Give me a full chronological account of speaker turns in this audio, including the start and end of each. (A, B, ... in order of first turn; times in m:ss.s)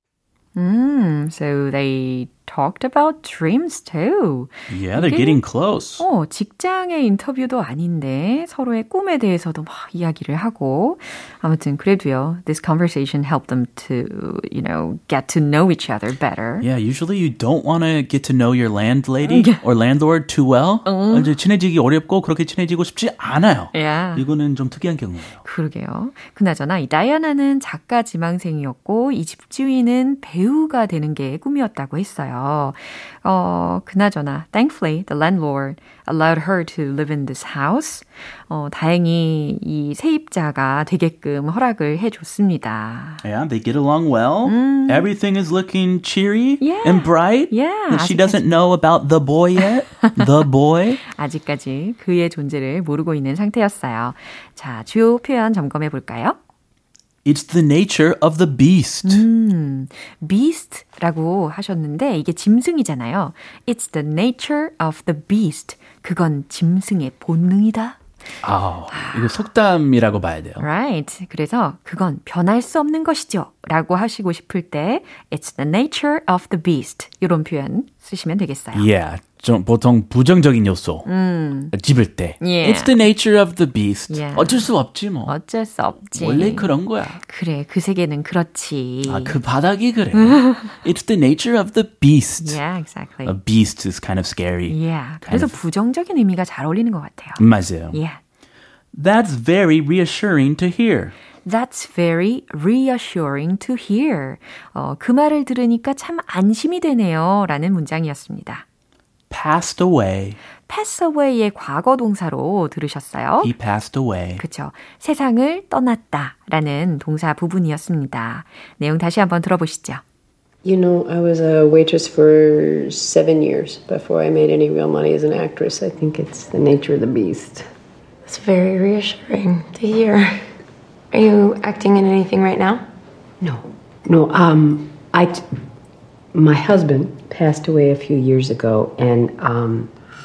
0:00.5-0:05.4 A
0:04.7-0:06.0 B
0:06.0-0:16.6 A
0:16.6-0:25.4 B
0:19.2-0:19.6 A
0:20.8-0:21.3 A
0:23.7-0:24.2 A
0:25.4-0:43.2 A
0:43.2-0:51.0 B
0:44.5-0:45.1 A
0:46.6-0:48.4 A
0:50.0-0:50.3 A
0:51.0-0:56.4 A
0:57.2-0:59.2 B
0:59.0-1:08.0 A
1:08.4-1:10.6 B
1:08.9-1:09.4 A
1:10.6-1:18.9 A
1:18.7-1:21.1 B
1:21.0-1:21.7 A
1:21.7-1:25.3 B
1:22.4-1:22.9 A
1:24.1-1:24.7 A
1:25.2-1:26.7 A
1:26.1-1:27.2 B
1:27.2-1:29.4 A
1:29.1-1:32.6 B
1:30.2-1:30.8 A
1:32.4-1:33.4 A
1:33.2-1:35.5 B
1:34.7-1:38.2 A
1:37.4-1:38.0 B
1:38.9-1:41.1 B
1:41.4-1:48.6 A
1:49.3-1:50.4 B
1:50.7-1:53.5 A
1:53.4-1:54.4 B
1:54.4-2:00.0 A
2:00.6-2:07.7 C
2:08.2-2:10.5 D
2:11.1-2:12.8 D
2:13.4-2:15.4 C
2:16.3-2:19.9 C